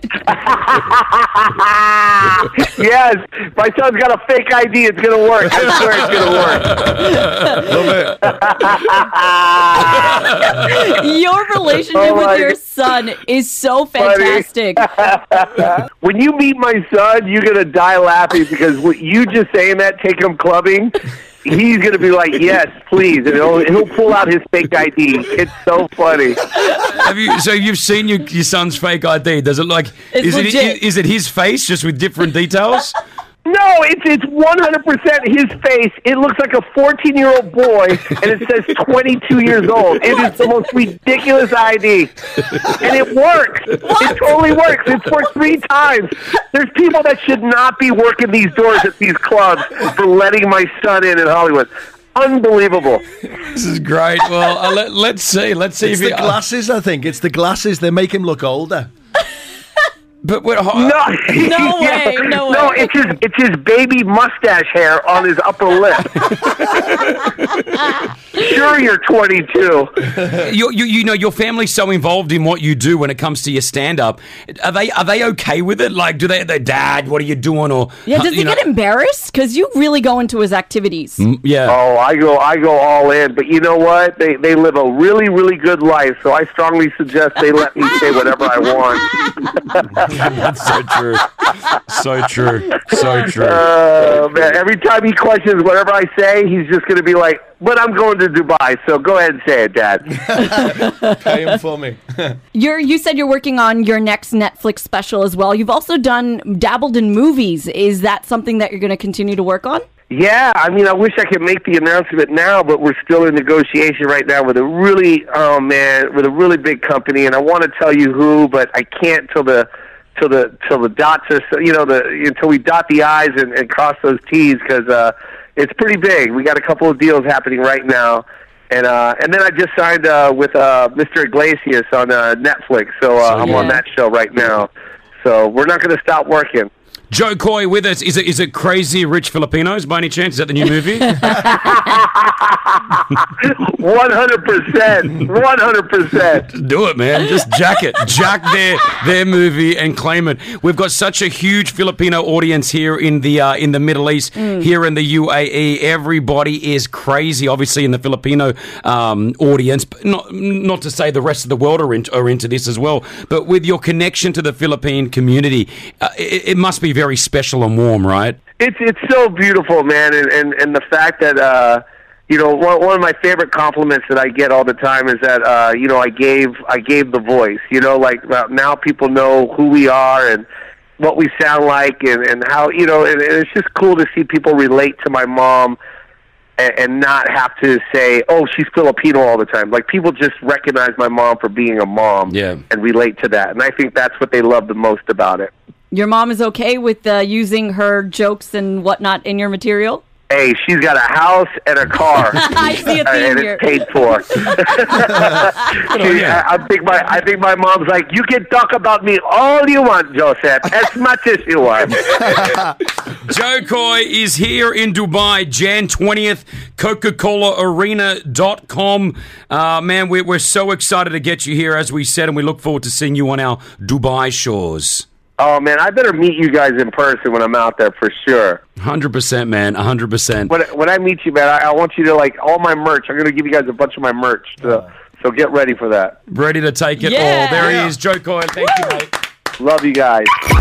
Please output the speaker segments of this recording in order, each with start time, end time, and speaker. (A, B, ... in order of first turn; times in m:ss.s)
0:00.3-0:06.9 A
0:06.8-0:07.3 B
0:07.5-0:08.3 C
0:08.2-0:10.2 A
0:10.4-0:14.9 D
0:12.0-0:12.5 A
0:14.0-0:26.4 A
0:26.9-0:33.0 B
0:30.1-0:30.8 D
0:33.4-0:53.0 A
0:43.8-0:44.2 D
0:53.5-0:56.4 B
0:55.8-0:58.9 C
1:00.2-1:01.2 B
1:00.7-1:06.4 A
1:01.4-1:03.2 D
1:08.3-1:09.9 A
1:10.2-1:18.6 B
1:18.1-1:21.2 D
1:21.2-1:21.8 B
1:21.7-1:30.0 A
1:30.0-1:33.7 B
1:33.3-1:40.2 A
1:40.2-1:42.4 C
1:40.5-1:41.1 D
1:42.5-1:49.8 D
1:50.1-2:14.7 A
2:13.2-2:13.8 B
2:13.4-2:13.8 D
2:15.2-2:16.7 A
2:17.1-2:21.5 B
2:21.4-2:26.5 A
2:26.5-2:48.4 B
2:34.4-2:34.7 D
2:48.6-3:00.5 A
3:01.0-3:05.8 A
3:06.6-3:15.5 A
3:12.3-3:12.6 B
3:15.9-3:20.0 D
3:20.3-3:32.2 A
3:22.4-3:24.6 D
3:25.9-3:26.4 B
3:32.0-3:32.7 B
3:33.2-3:45.0 B
3:45.4-3:48.6 A
3:48.8-3:50.6 B
3:50.5-3:56.2 A
3:56.3-3:59.1 B
3:57.0-3:57.8 D
3:57.6-3:57.9 C
3:58.6-3:59.0 D
3:59.6-4:00.3 A